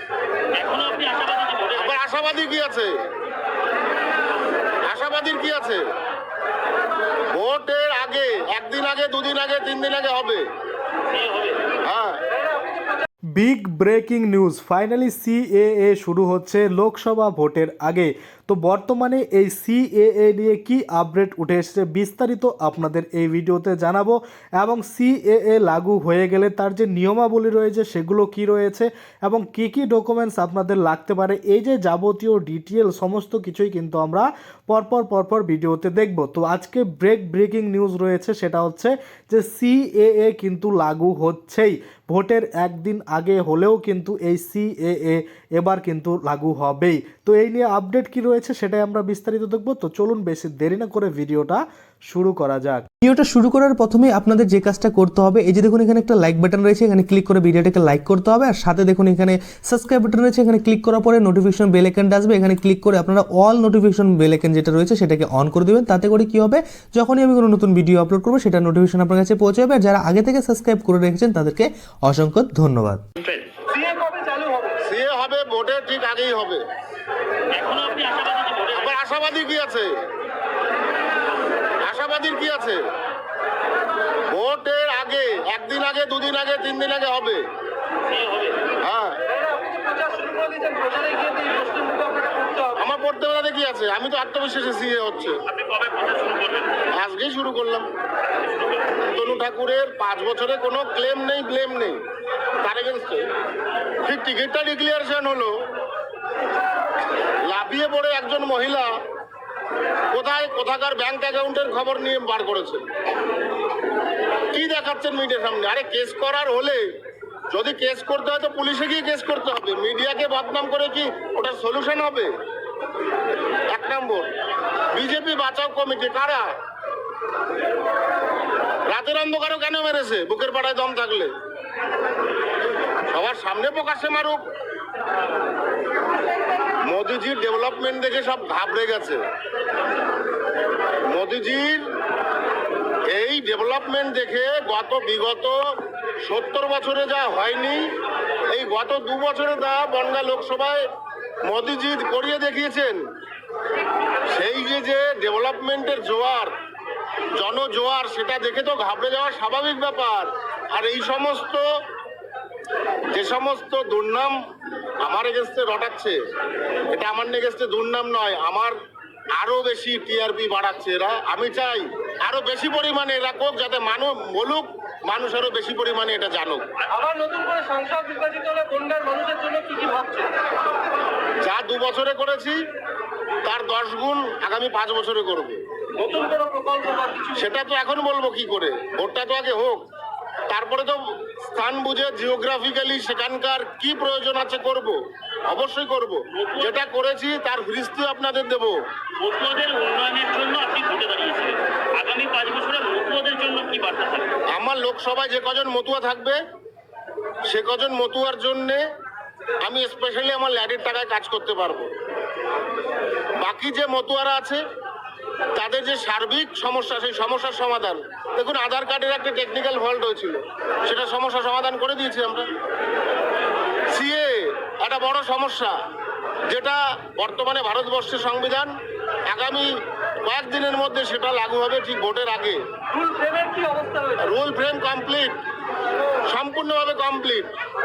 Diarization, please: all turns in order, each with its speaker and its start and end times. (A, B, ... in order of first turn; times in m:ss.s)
0:00.6-0:02.0 A
0:01.8-0:02.9 B
0:04.9-0:05.8 B
0:07.3-0:10.4 B
0:11.1-0:11.6 A
0:11.8-0:12.2 B
0:12.4-0:13.1 C
0:13.4-0:52.9 D
0:53.0-1:13.0 E
1:13.2-1:13.5 A
1:13.7-1:14.8 C
1:14.9-1:16.6 B
1:17.5-1:19.0 A
1:18.7-1:19.9 B
1:21.8-1:22.8 B
1:24.3-1:27.4 B
1:28.1-1:28.6 A
1:28.8-1:29.2 B
1:29.3-1:32.8 C
1:32.8-1:35.4 B
1:35.5-1:36.8 A
1:37.0-1:37.9 B
1:38.4-1:39.0 A
1:39.1-1:42.0 B
1:42.6-1:43.3 B
1:44.0-1:45.5 B
1:47.5-1:48.9 B
1:50.1-1:52.8 B
1:54.5-1:56.8 B
1:57.5-2:02.3 B
2:03.7-2:04.3 B
2:05.0-2:06.5 B
2:08.9-2:11.3 B
2:13.1-2:14.4 B
2:16.9-2:19.2 B
2:21.1-2:21.8 B
2:23.1-2:25.6 B
2:26.2-2:27.9 B
2:28.5-2:30.8 B
2:31.4-2:33.0 B
2:34.3-2:36.5 B
2:37.4-2:41.6 B
2:43.1-2:44.3 B
2:45.0-2:46.2 B
2:46.9-2:48.7 B
2:49.4-2:56.7 B
2:56.9-3:00.3 C
3:01.4-3:02.6 B
3:03.4-3:05.6 B
3:06.0-3:07.5 C
3:07.4-3:09.8 B
3:10.5-3:15.0 B
3:15.5-3:18.8 B
3:16.4-3:16.8 A
3:19.2-3:24.3 A
3:24.5-3:26.4 B
3:27.5-3:28.8 B
3:29.6-3:31.9 B
3:33.4-3:34.6 B
3:35.6-3:42.5 B
3:43.9-3:45.7 B
3:46.5-3:48.7 B
3:49.3-3:49.7 B
3:50.2-3:52.6 B
3:52.9-3:54.3 C
3:54.2-3:55.4 B
3:56.3-3:57.5 B